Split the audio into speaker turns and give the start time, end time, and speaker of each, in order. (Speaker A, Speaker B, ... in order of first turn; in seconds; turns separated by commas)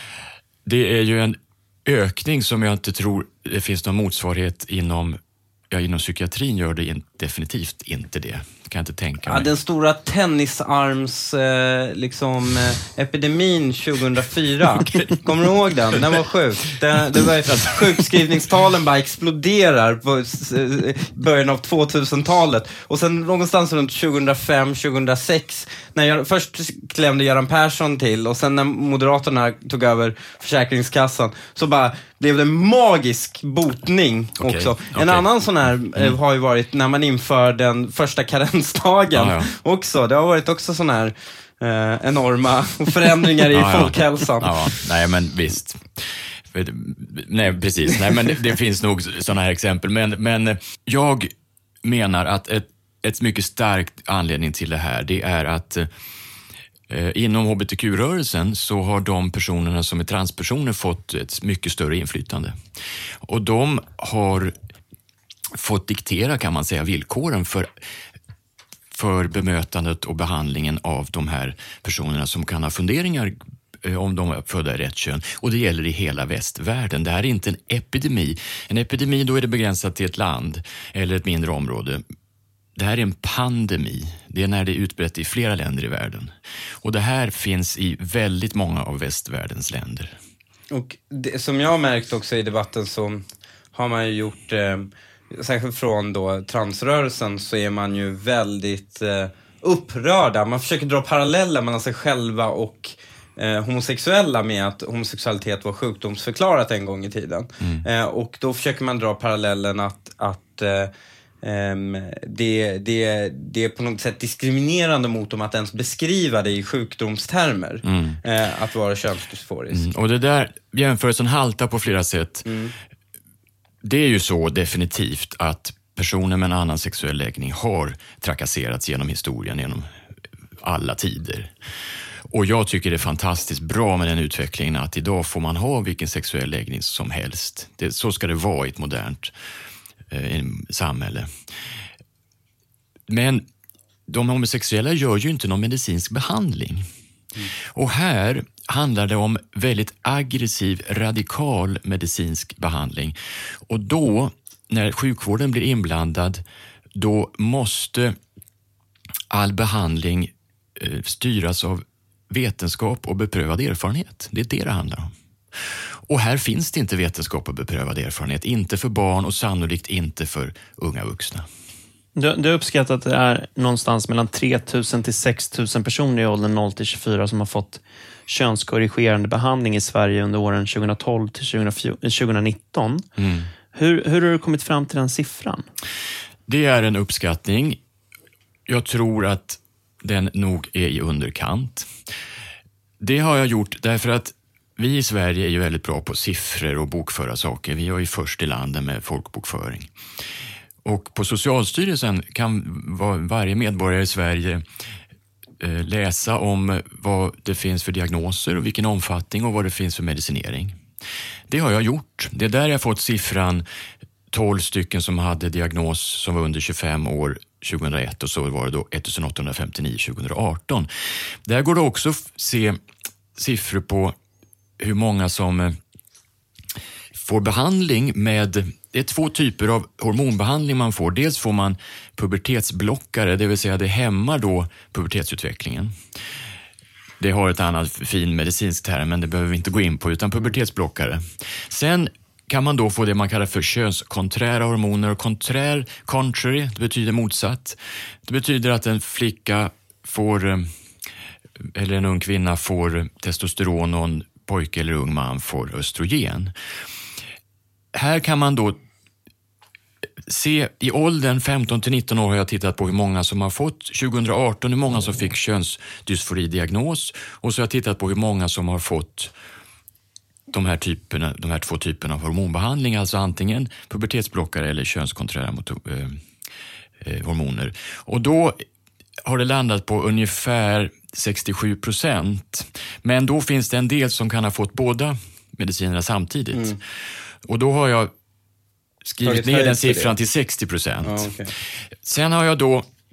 Speaker A: 0.7-5.2, Speaker A: 5.7-9.5, Speaker B: 9.3-44.5, Speaker A: 14.9-15.2, Speaker A: 17.2-18.2, Speaker A: 34.4-35.2, Speaker A: 39.1-39.5, Speaker A: 43.5-51.3, Speaker A: 51.8-55.9, Speaker A: 56.9-62.5, Speaker A: 63.2-64.5, Speaker A: 65.5-67.7, Speaker A: 68.9-82.0, Speaker A: 82.8-90.2, Speaker B: 90.7-93.2, Speaker B: 93.8-110.9, Speaker B: 111.4-119.9, Speaker A: 117.8-118.2, Speaker A: 119.7-122.5, Speaker B: 122.5-122.8, Speaker A: 123.8-129.9, Speaker A: 130.6-131.5, Speaker A: 132.3-139.3, Speaker A: 140.1-141.3, Speaker A: 143.1-143.4, Speaker A: 144.1-146.9, Speaker A: 147.7-156.4, Speaker A: 156.9-158.2, Speaker A: 159.3-171.5, Speaker C: 172.2-183.1, Speaker A: 183.2-183.5, Speaker C: 183.7-185.7, Speaker A: 186.5-187.8, Speaker A: 188.7-191.9, Speaker A: 193.0-199.9, Speaker A: 200.8-204.6, Speaker A: 205.6-210.8, Speaker A: 211.5-213.7, Speaker A: 214.3-220.9, Speaker A: 221.5-222.8, Speaker A: 223.4-224.2, Speaker A: 224.8-225.8, Speaker A: 227.1-235.9, Speaker A: 237.2-250.7, Speaker A: 251.7-256.5, Speaker A: 257.9-258.8, Speaker A: 260.3-269.3, Speaker A: 270.5-276.2, Speaker A: 277.0-278.6, Speaker A: 279.2-286.8, Speaker B: 286.5-286.8, Speaker A: 287.4-288.1, Speaker A: 289.1-291.3, Speaker B: 289.2-290.1, Speaker B: 291.0-291.5, Speaker A: 292.0-292.9